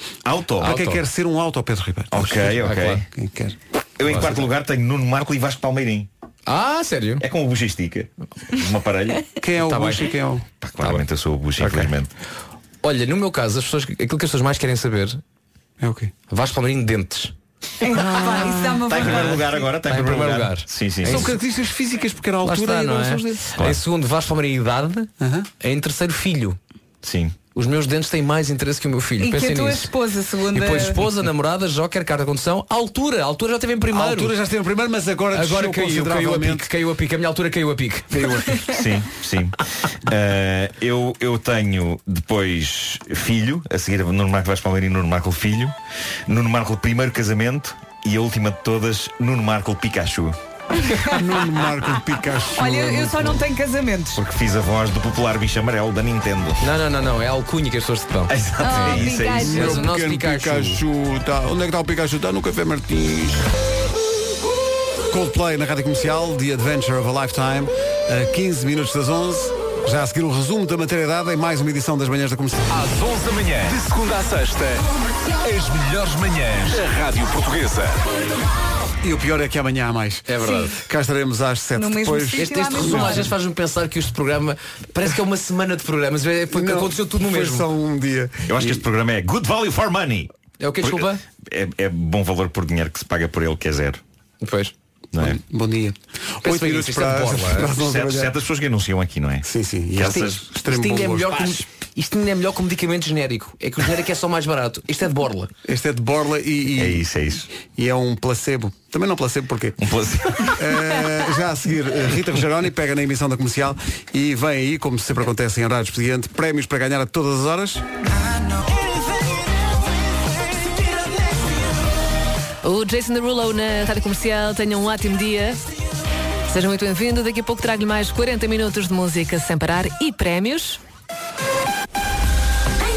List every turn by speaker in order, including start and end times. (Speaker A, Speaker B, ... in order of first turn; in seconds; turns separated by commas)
Speaker A: 0.2-0.7, Speaker B: 0.6-1.0, Speaker C: 0.6-3.5, Speaker A: 2.1-3.0, Speaker B: 2.4-3.0, Speaker A: 4.0-6.1, Speaker B: 4.1-4.4, Speaker B: 6.5-7.2, Speaker A: 7.2-9.3, Speaker C: 9.4-10.4, Speaker B: 9.6-10.1, Speaker A: 10.6-12.1, Speaker B: 11.6-11.9, Speaker B: 12.8-15.2, Speaker C: 15.8-16.1, Speaker B: 16.3-17.3, Speaker D: 17.8-19.6, Speaker B: 17.9-21.4, Speaker A: 18.8-21.3, Speaker C: 21.1-23.6, Speaker B: 22.4-26.6, Speaker C: 25.2-25.5, Speaker A: 27.0-27.4, Speaker B: 27.5-29.9, Speaker D: 29.2-31.0, Speaker B: 30.5-34.3, Speaker C: 33.9-36.7, Speaker B: 35.3-38.2, Speaker C: 38.1-38.6, Speaker A: 38.7-45.7, Speaker A: 46.3-50.4, Speaker D: 50.8-51.2, Speaker C: 51.1-53.4, Speaker D: 52.6-54.2, Speaker A: 54.2-56.6, Speaker B: 56.6-60.8, Speaker A: 58.3-59.7, Speaker D: 58.6-59.8, Speaker C: 59.4-63.4, Speaker C: 65.1-72.8, Speaker E: 72.7-78.1, Speaker C: 79.0-83.3, Speaker B: 80.3-80.8, Speaker D: 81.8-83.3, Speaker B: 82.3-87.7, Speaker C: 86.5-88.8, Speaker A: 88.5-90.3, Speaker B: 90.6-91.2, Speaker A: 90.8-94.0, Speaker B: 94.4-94.7, Speaker C: 95.2-98.3, Speaker B: 96.4-97.7, Speaker A: 97.7-99.5, Speaker C: 99.4-101.6, Speaker A: 100.0-100.4, Speaker B: 100.0-105.5, Speaker C: 105.6-109.8, Speaker A: 106.8-107.5, Speaker A: 109.8-110.6, Speaker C: 110.5-117.8, Speaker F: 122.6-125.6, Speaker F: 126.5-130.8